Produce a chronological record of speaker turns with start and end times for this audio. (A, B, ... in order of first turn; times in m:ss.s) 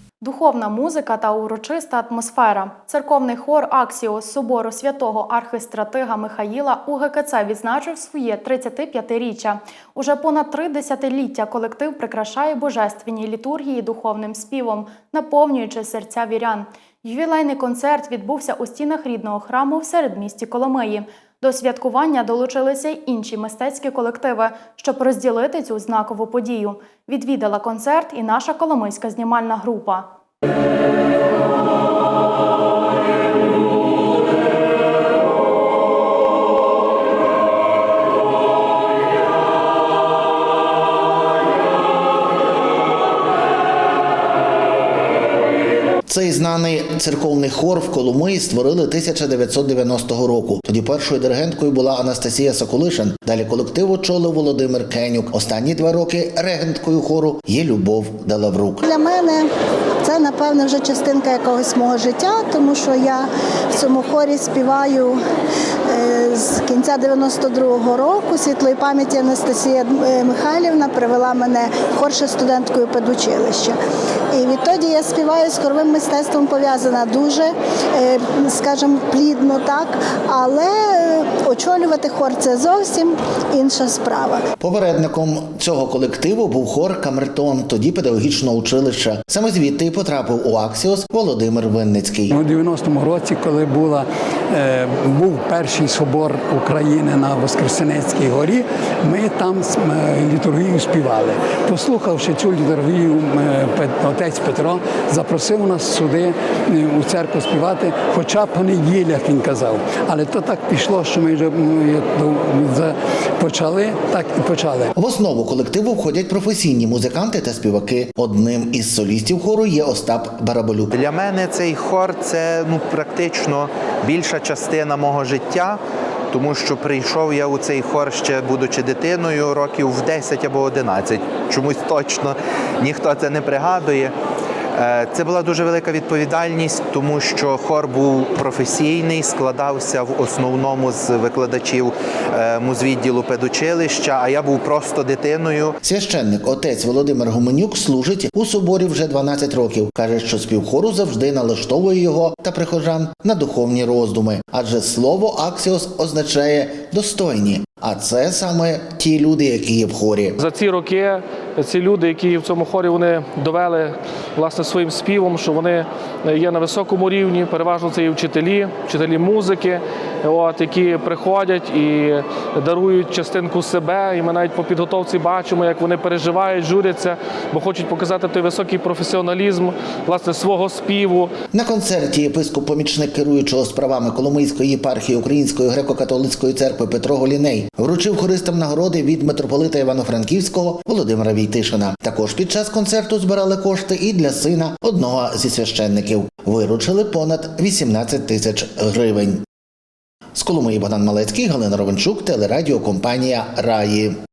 0:00.2-0:30.1 A
0:46.1-0:58.8 B
0:58.8-0:59.5 C
1:00.0-1:05.2 C
1:05.9-1:13.8 C
1:14.3-1:24.5 C
1:24.6-1:32.4 B
1:32.3-1:54.9 D
1:55.0-2:00.9 B
2:00.9-2:05.8 E
2:06.3-2:14.1 E
2:14.8-2:25.8 E
2:25.8-2:40.4 B
2:40.4-3:01.3 F
3:01.5-3:19.4 B
3:20.4-3:24.2 B